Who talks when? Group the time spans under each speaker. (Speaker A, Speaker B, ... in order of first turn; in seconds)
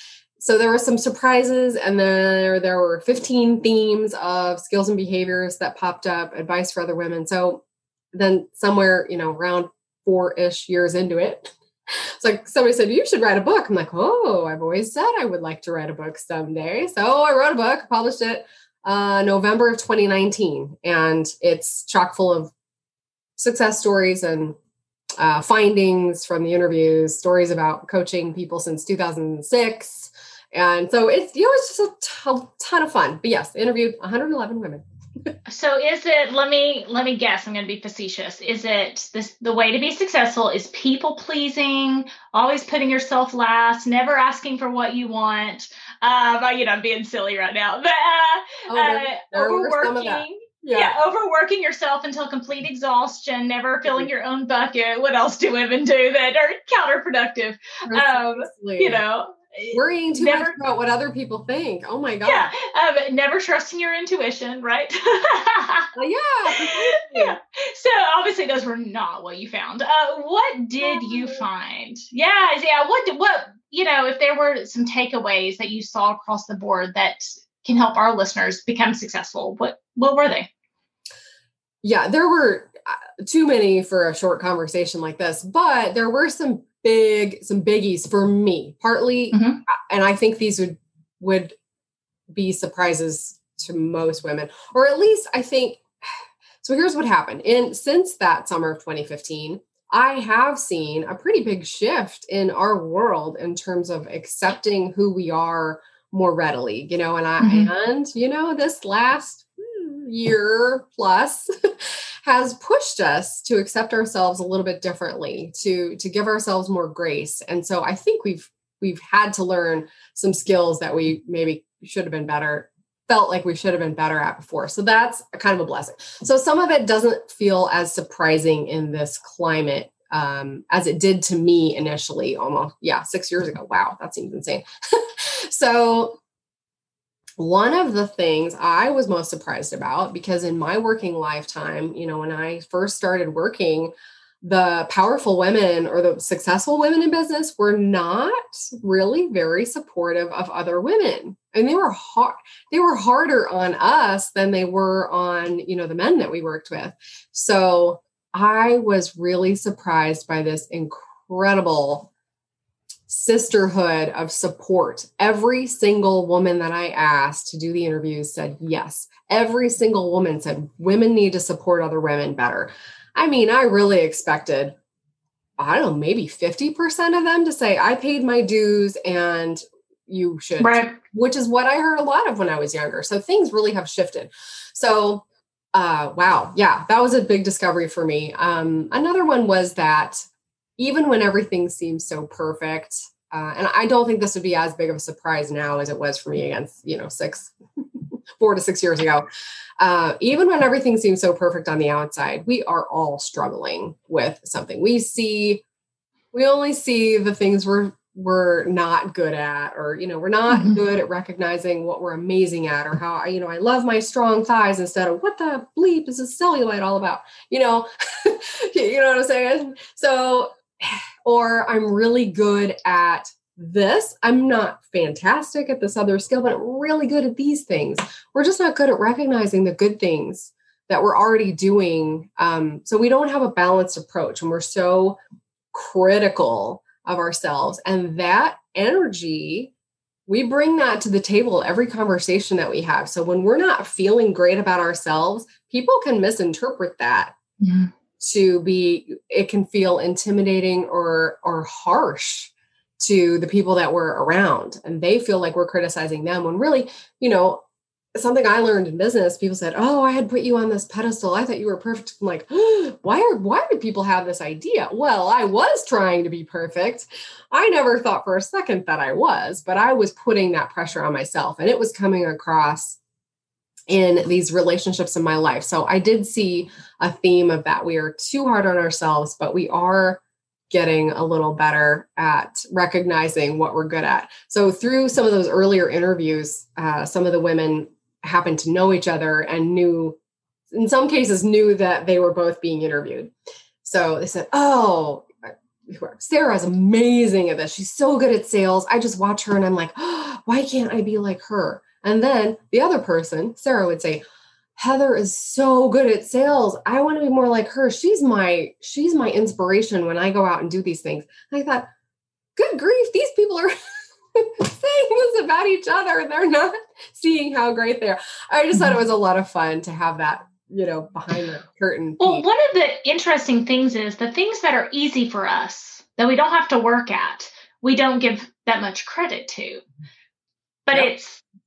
Speaker A: 0.4-22.5, 23.4-24.6, 25.2-35.3, 48.7-51.0, 57.9-59.0, 59.7-62.5, 65.9-67.4, 71.1-71.4, 81.8-91.5, 92.3-136.2, 137.4-162.1, 163.1-174.8, 175.6-190.3, 190.8-197.5, 198.4-199.3, 199.8-205.6, 206.3-235.2, 235.7-239.7, 240.3-247.3, 248.2-257.6, 258.2-273.0, 273.9-290.2, 290.7-293.3, 293.8-295.3, 295.9-304.2, 304.8-311.9, 312.6-313.7, 314.3-322.4
Speaker B: 35.5-60.6, 62.2-65.9, 66.5-80.5, 89.3-89.6, 107.4-107.7, 180.6-181.0, 210.5-210.8, 247.6-247.9, 322.2-329.8, 330.9-331.4